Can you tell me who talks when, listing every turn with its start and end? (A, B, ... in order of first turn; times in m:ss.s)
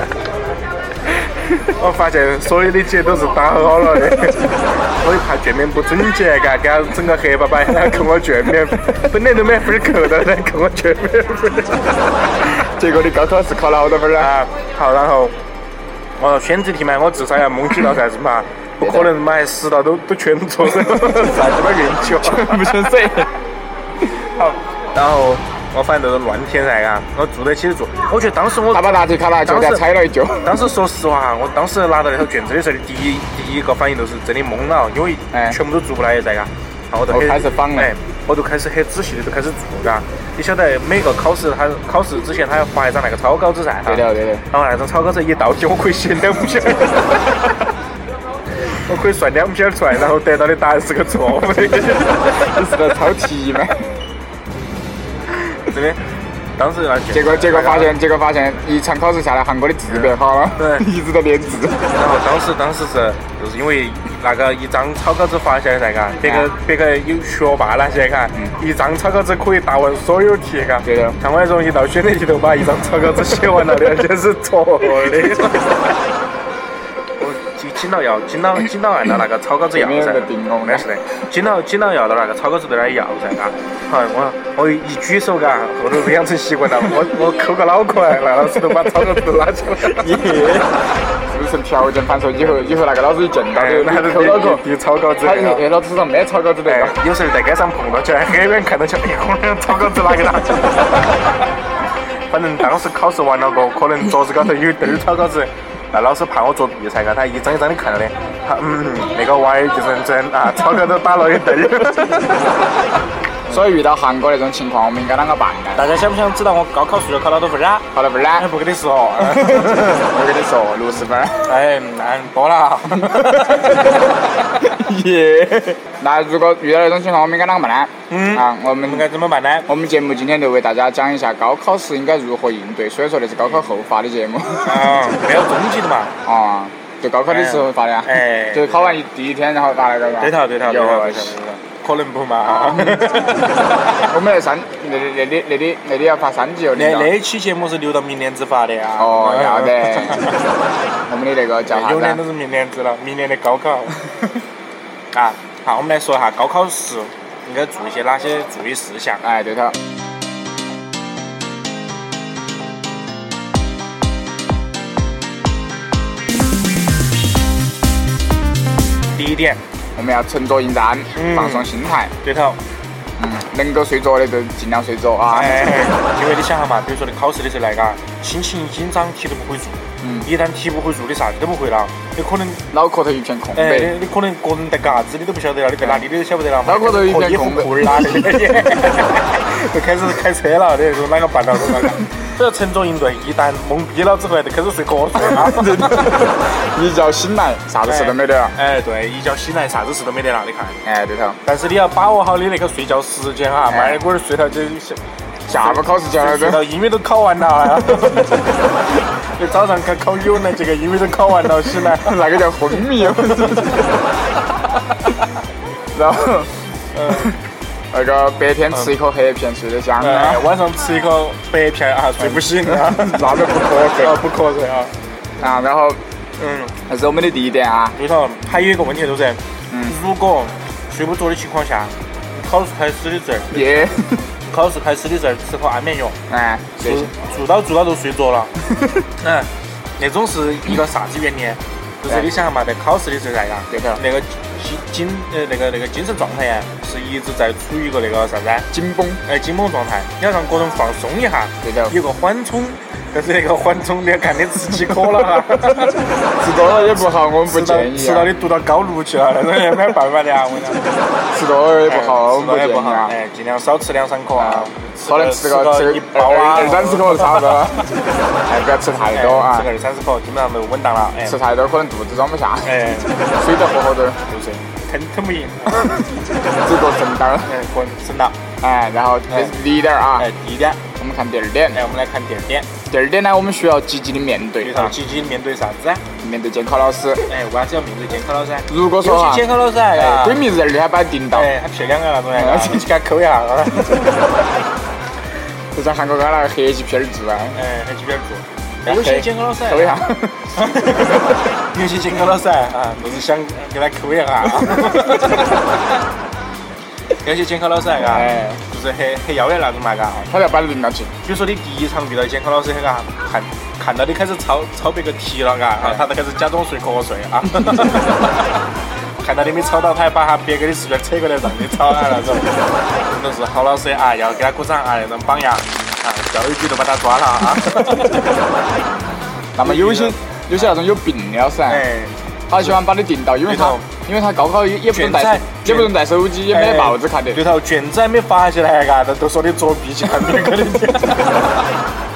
0:01.4-0:11.9 A
0:12.4-0:14.4 B
0:14.2-0:15.4 A
0:16.2-0:22.9 A
0:18.8-0:19.1 B
0:20.7-0:21.4 B
0:22.0-0:23.4 B
0:24.2-0:29.8 A
0:28.7-0:30.7 B
0:30.4-0:47.6 A
0:35.3-0:35.6 B
0:37.1-0:37.9 B
0:43.8-0:44.4 B
0:48.7-0:52.9 A
0:52.2-0:53.8 B
0:55.5-0:56.0 A
0:56.6-0:58.0 A
0:57.1-1:01.8 B
0:59.9-1:00.9 A
1:01.9-1:16.0 A
1:06.2-1:06.5 B
1:10.8-1:11.2 B
1:17.2-1:30.6 A
1:19.7-1:20.9 B
1:29.9-1:34.6 B
1:32.4-1:32.7 A
1:33.5-1:35.6 A
1:35.2-1:37.0 B
1:36.7-1:41.4 A
1:42.3-1:53.0 A
1:53.5-1:55.9 B
1:55.8-2:00.1 A
1:57.9-1:58.5 B
1:59.2-2:01.4 B
2:01.4-2:04.5 A
2:03.1-2:03.9 B
2:04.6-2:09.1 B
2:08.1-2:09.7 A
2:09.7-2:15.0 B
2:14.6-2:16.1 A
2:16.2-2:21.4 B
2:17.3-2:19.0 A
2:20.2-2:24.1 A
2:22.7-2:23.1 B
2:24.1-2:27.1 B
2:26.8-2:30.4 A
2:29.0-2:30.3 B
2:31.1-2:32.2 B
2:31.7-2:34.0 A
2:35.1-2:39.2 A
2:39.2-2:39.8 B
2:49.1-2:49.6 A
2:50.0-2:52.1 B
2:51.2-2:51.7 A
2:52.2-2:52.6 A
2:53.2-2:56.0 B
2:55.3-3:02.6 A
3:00.0-3:00.3 B
3:02.7-3:04.0 B
3:03.6-3:16.2 A
3:05.8-3:06.1 B
3:06.6-3:08.8 B
3:15.1-3:18.6 B
3:17.9-3:20.8 A
3:20.8-3:21.4 B
3:21.4-3:28.8 A
3:23.7-3:24.0 B
3:25.5-3:26.7 B
3:29.4-3:32.2 A
3:31.9-3:34.1 B
3:33.0-3:33.9 A
3:35.9-3:36.5 B
3:36.9-3:37.3 A
3:37.1-3:37.4 B
3:37.9-3:40.5 B
3:40.0-3:43.5 A
3:42.2-3:44.3 B
3:44.0-3:44.9 A
3:45.4-3:46.0 B
3:46.4-3:46.8 A
3:46.9-3:48.0 B
3:48.0-3:53.9 A
3:49.7-3:50.0 B
3:53.5-3:54.3 B
3:54.5-3:56.2 A
3:56.3-3:57.1 B
3:56.8-3:58.5 A
3:59.2-4:08.7 A
4:03.7-4:04.0 B
4:08.7-4:09.2 B
4:09.3-4:16.0 A
4:11.6-4:12.0 B
4:16.4-4:18.3 B
4:16.5-4:20.8 A
4:21.3-4:23.2 B
4:21.9-4:27.5 A
4:24.4-4:27.9 B
4:28.5-4:29.7 B
4:29.1-4:31.4 A
4:31.2-4:34.2 B
4:32.6-4:33.1 A
4:34.3-4:35.9 A
4:35.7-4:37.5 B
4:37.4-4:38.4 A
4:38.6-4:40.3 B
4:40.2-4:40.8 A
4:41.0-4:41.8 B
4:41.7-4:42.7 A
4:42.9-4:45.0 B
4:44.6-4:46.0 A
4:46.2-4:47.3 B
4:47.3-4:50.4 A
4:48.7-4:51.5 B
4:51.3-4:54.1 A
4:52.3-4:52.9 B
4:53.9-4:54.3 B
4:55.7-4:57.6 B
4:57.6-5:00.0 A
4:58.8-5:01.4 B
5:00.5-5:05.9 A
5:07.2-5:10.3 A
5:08.0-5:08.6 B
5:10.3-5:11.1 B
5:11.2-5:18.6 A
5:19.2-5:28.3 A
5:27.9-5:28.2 B
5:29.6-5:31.8 B
5:29.6-5:30.7 A
5:31.7-5:32.8 A
5:32.5-5:37.4 B
5:33.4-5:33.9 A
5:34.9-5:36.0 A
5:36.5-5:41.7 A